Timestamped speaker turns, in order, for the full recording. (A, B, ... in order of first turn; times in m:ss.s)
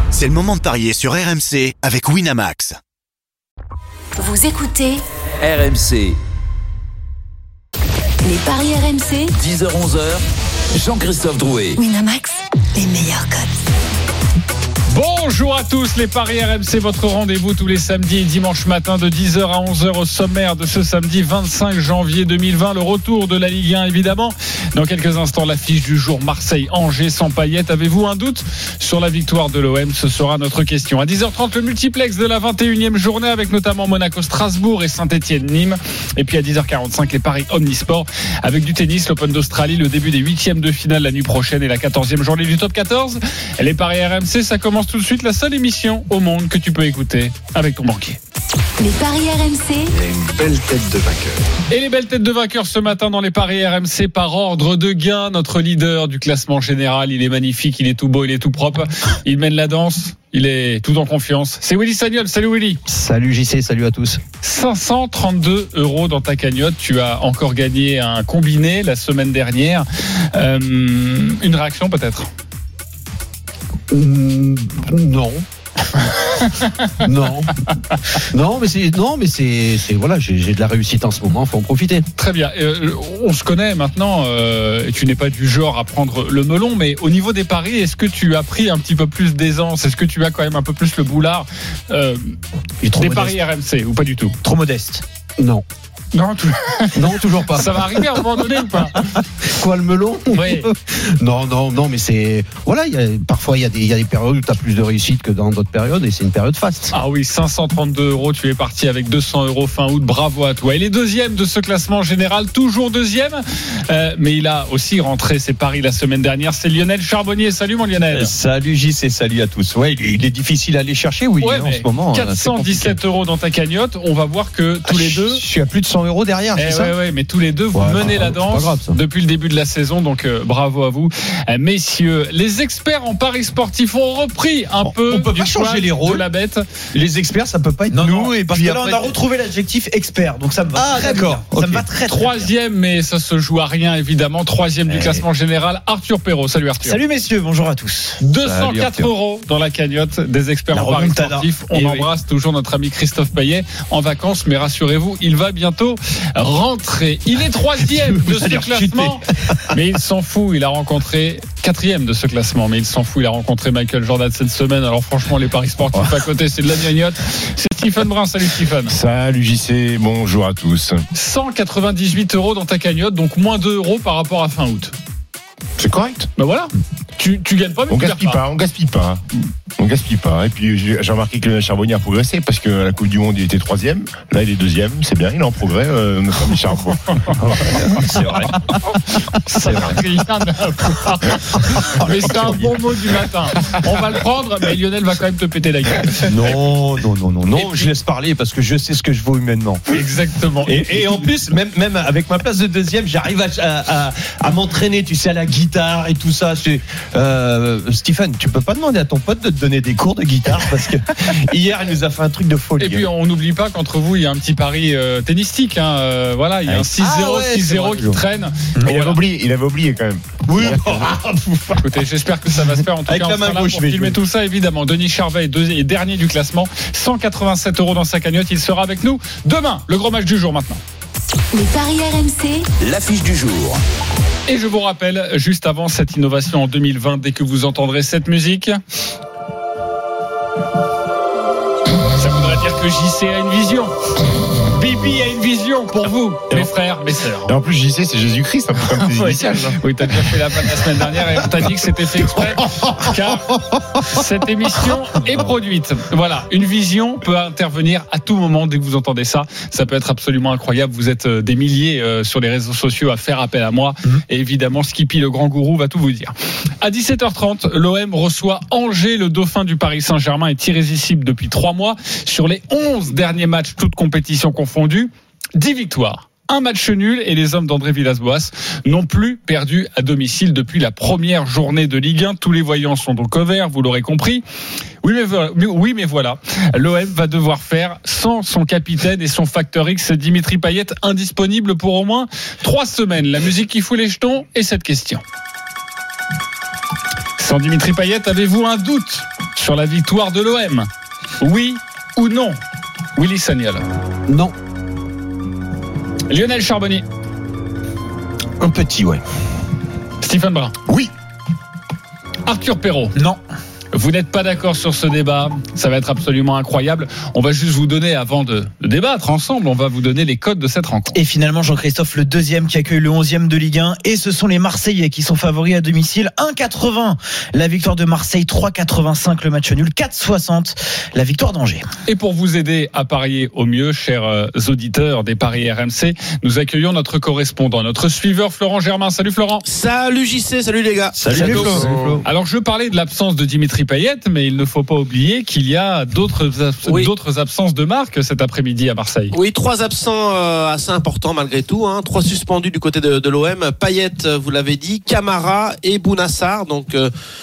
0:00.1-0:02.8 A
0:04.2-0:05.0 B
0:05.4-0:06.2 C
0:08.2-0:09.3 B
0:09.4-0:10.2 C
0:10.7-0:11.8 C
0:11.8-0:13.5 B
0:14.9-0:48.2 D
0:48.8-0:49.9 B
0:49.9-0:51.4 C
0:51.7-1:02.8 D
1:02.9-1:04.2 E
1:04.4-1:12.3 D
1:13.9-1:15.4 E
1:17.0-1:17.5 E
1:18.2-1:22.1 E
1:22.2-1:32.4 D
1:32.8-1:33.4 F
1:33.0-1:34.4 D
1:34.4-1:35.0 F
1:35.4-1:35.6 E
1:36.1-1:37.0 D
1:36.9-1:38.2 E
1:37.5-1:39.0 D
1:39.4-1:46.9 E
1:40.3-1:40.7 D
1:46.9-1:58.3 D
1:58.1-2:02.9 G
2:01.4-2:05.4 D
2:04.8-2:06.9 G
2:06.6-2:16.6 D
2:07.7-2:09.0 E
2:14.8-2:16.2 G
2:16.9-2:19.1 G
2:17.9-2:22.5 F
2:20.7-2:21.9 G
2:22.1-2:27.0 D
2:26.8-2:28.2 F
2:28.2-2:48.9 D
2:28.4-2:29.1 G
2:30.7-2:31.5 F
2:31.7-2:32.0 G
2:38.1-2:39.5 G
2:48.9-2:51.0 H
2:51.1-2:54.9 D
2:55.8-2:56.3 H
2:56.4-2:58.4 D
2:57.9-2:59.2 H
2:59.8-3:07.8 H
3:07.6-3:08.6 G
3:09.1-3:16.5 D
3:12.1-3:12.7 G
3:16.2-3:20.0 G
3:17.5-3:17.9 D
3:19.9-3:21.3 D
3:20.6-3:33.1 G
3:32.8-3:39.2 D
3:36.7-3:38.2 G
3:38.8-3:41.2 H
3:40.4-3:41.9 G
3:41.8-3:50.8 D
3:43.0-3:44.2 G
3:51.5-3:52.6 B
3:52.8-3:53.8 C
3:54.5-3:58.8 D
4:02.1-4:03.9 D
4:04.7-4:07.5 D
4:07.5-4:09.8 H
4:09.1-4:13.5 D
4:14.1-4:44.4 D
4:45.0-4:55.2 D
4:57.4-5:00.9 D
5:01.4-5:02.6 D
5:03.2-5:03.8 D
5:04.3-5:04.5 E
5:06.3-5:07.0 D
5:08.6-5:09.2 G
5:10.2-5:10.8 D
5:12.4-5:13.2 D
5:13.9-5:21.2 D
5:21.1-5:31.8 F
5:32.1-5:39.6 D
5:39.6-5:41.9 I
5:41.2-5:42.2 G
5:41.3-5:41.8 F
5:42.2-5:49.3 D
5:49.3-5:57.1 I